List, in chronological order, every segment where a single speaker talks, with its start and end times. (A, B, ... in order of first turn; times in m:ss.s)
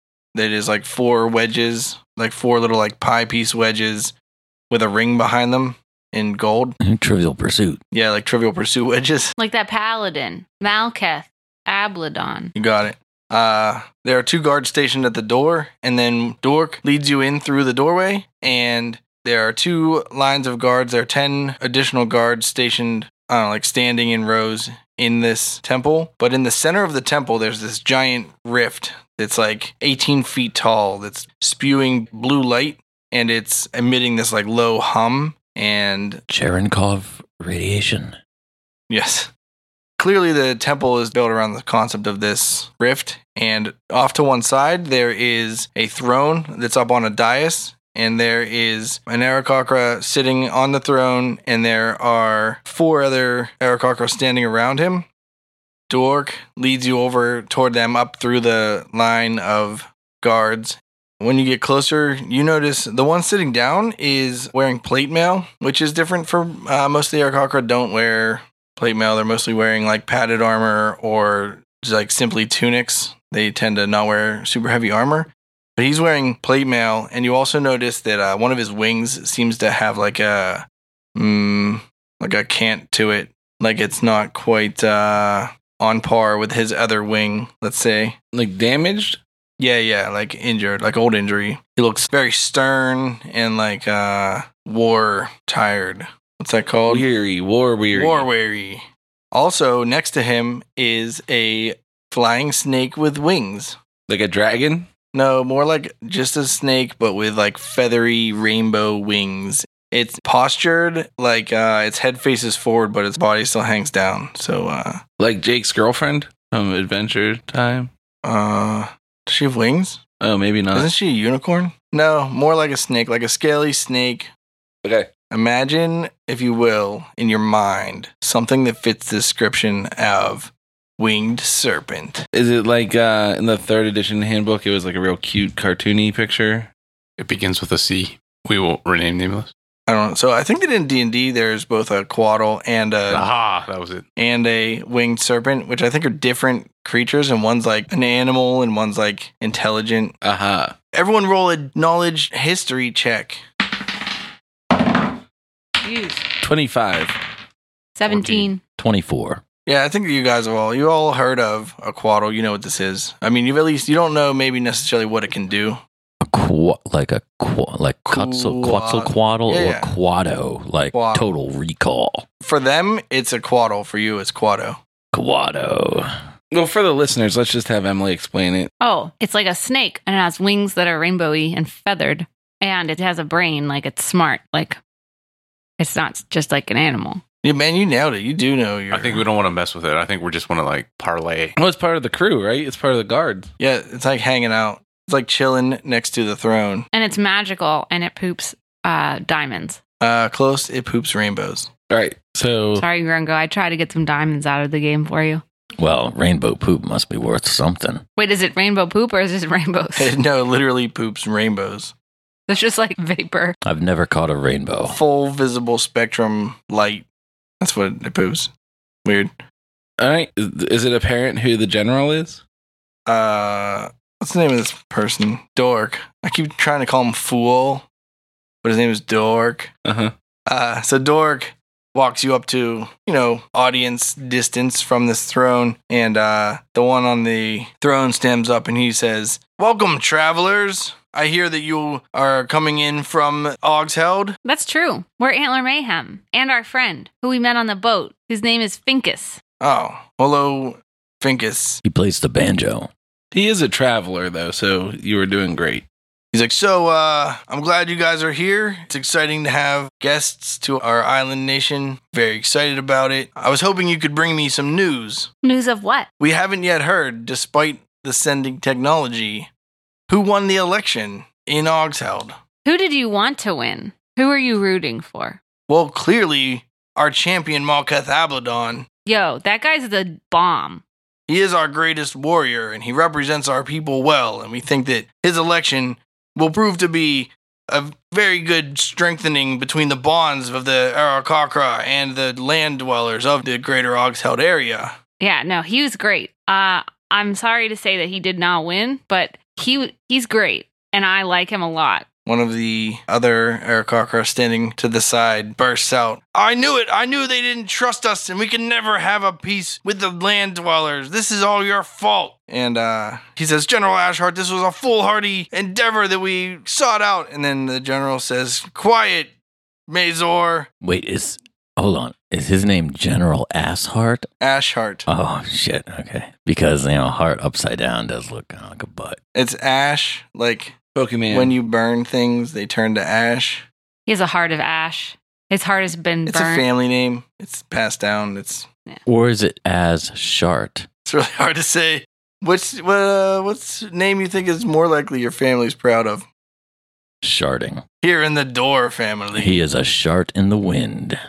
0:00.3-0:04.1 A
0:04.7-0:06.8 A
0:06.8-0:07.8 B
0:07.9-0:09.3 A
0:09.4-0:12.5 C
0:12.6-0:36.2 A
0:36.3-0:38.2 B
0:38.9-0:39.3 A
0:40.0-0:55.1 A
0:55.9-1:28.2 A
1:28.3-1:29.2 D
1:29.6-1:37.0 A
1:36.9-1:38.3 D
1:37.9-1:43.8 A
1:44.1-1:44.9 D
1:45.1-1:55.0 A
1:55.2-1:57.9 D
1:58.2-2:00.0 A
2:00.2-2:00.9 D
2:00.7-2:04.3 A
2:04.8-2:05.1 D
2:05.3-2:12.2 A
2:12.3-2:16.7 D
2:17.2-2:19.5 E
2:19.9-2:23.3 A
2:23.1-2:24.0 E
2:24.2-2:30.2 A
2:30.2-2:30.8 D
2:30.9-2:33.4 A
2:35.8-2:36.2 C
2:36.4-2:37.2 D
2:38.0-2:38.6 C
2:38.8-2:39.4 B
2:39.7-2:45.8 A
2:46.2-2:52.3 B
2:48.1-2:49.9 A
2:50.9-2:51.3 A
2:52.4-2:54.8 A
2:55.1-2:56.1 B
2:56.5-2:58.7 D
2:58.8-3:04.8 C
3:05.8-3:07.2 C
3:07.4-3:09.3 A
3:08.9-3:11.6 E
3:11.6-3:13.5 D
3:13.6-3:16.9 A
3:16.9-3:19.8 C
3:20.0-3:21.7 A
3:21.9-3:22.8 D
3:22.8-3:25.4 C
3:25.8-3:28.0 B
3:28.2-3:30.1 C
3:30.0-3:31.9 A
3:32.5-3:33.6 C
3:33.6-3:35.0 B
3:34.9-3:37.0 A
3:37.6-3:38.5 A
3:39.0-3:39.4 A
3:40.0-3:42.4 D
3:43.1-3:47.9 A
3:48.6-3:49.7 A
3:49.9-3:50.1 D
3:50.5-4:04.4 A
4:04.4-4:09.4 C
4:09.6-4:11.8 A
4:11.8-4:12.9 B
4:13.3-4:15.8 D
4:16.3-4:25.3 A
4:25.4-4:26.1 C
4:26.2-4:29.5 A
4:30.1-4:32.4 A
4:32.6-4:35.4 C
4:35.7-4:38.9 A
4:39.1-4:40.8 C
4:41.3-4:55.0 A
4:55.2-5:02.1 C
5:02.3-5:19.3 A
5:19.9-5:20.7 A
5:20.8-5:24.3 B
5:24.4-5:25.1 A
5:25.1-5:29.2 B
5:29.4-5:30.8 A
5:31.0-5:31.6 D
5:31.3-5:33.7 A
5:34.1-5:36.6 C
5:36.3-5:38.7 A
5:39.1-5:40.9 B
5:41.1-5:46.3 A
5:47.2-5:47.8 B
5:48.0-5:49.6 A
5:49.4-5:51.2 B